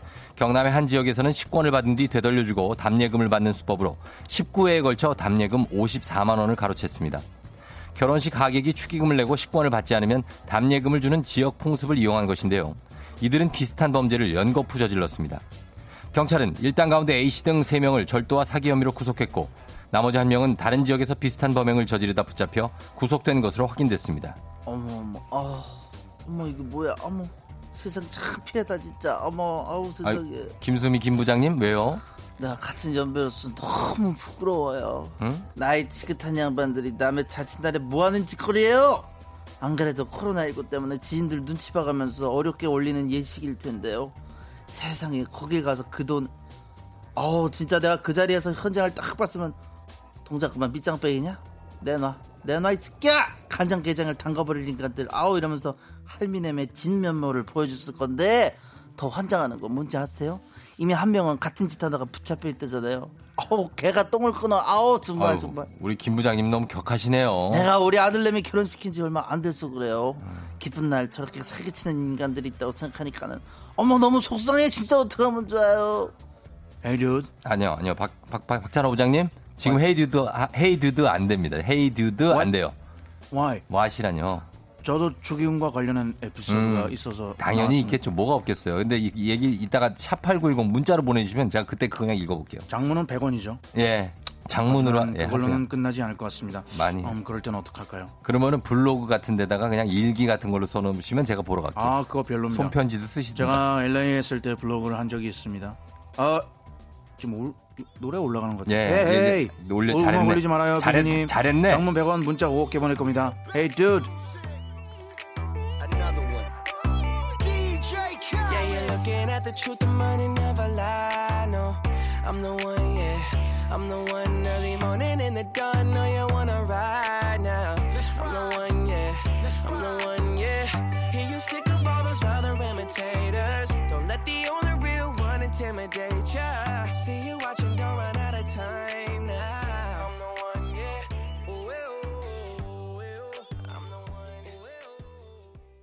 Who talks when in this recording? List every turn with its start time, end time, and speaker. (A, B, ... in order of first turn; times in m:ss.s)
0:00.4-0:07.2 A
0:08.0-0:15.4 A
0:16.1-0:24.4 A
0:24.7-0:30.5 B
0:30.0-0:32.0 A
0:32.4-0:39.1 B
0:35.2-0:35.5 A
0:39.6-0:44.1 B
0:44.7-0:46.3 B
0:47.2-0:49.6 B
0:50.2-1:05.7 B
1:05.2-1:07.7 A
1:07.5-1:16.1 B
1:10.2-1:10.5 A
1:16.8-1:17.3 C
1:17.4-1:22.8 A
1:23.3-1:23.6 C
1:23.7-1:24.5 A
1:24.8-1:28.0 C
1:26.5-1:32.7 A
1:32.7-1:33.6 C
1:33.7-1:35.6 A
1:34.7-1:38.1 C
1:36.7-1:37.2 A
1:38.2-1:43.6 A
1:41.8-1:42.7 C
1:43.4-1:46.5 C
1:47.2-1:54.1 C
1:48.7-1:51.8 A
1:58.4-2:25.3 D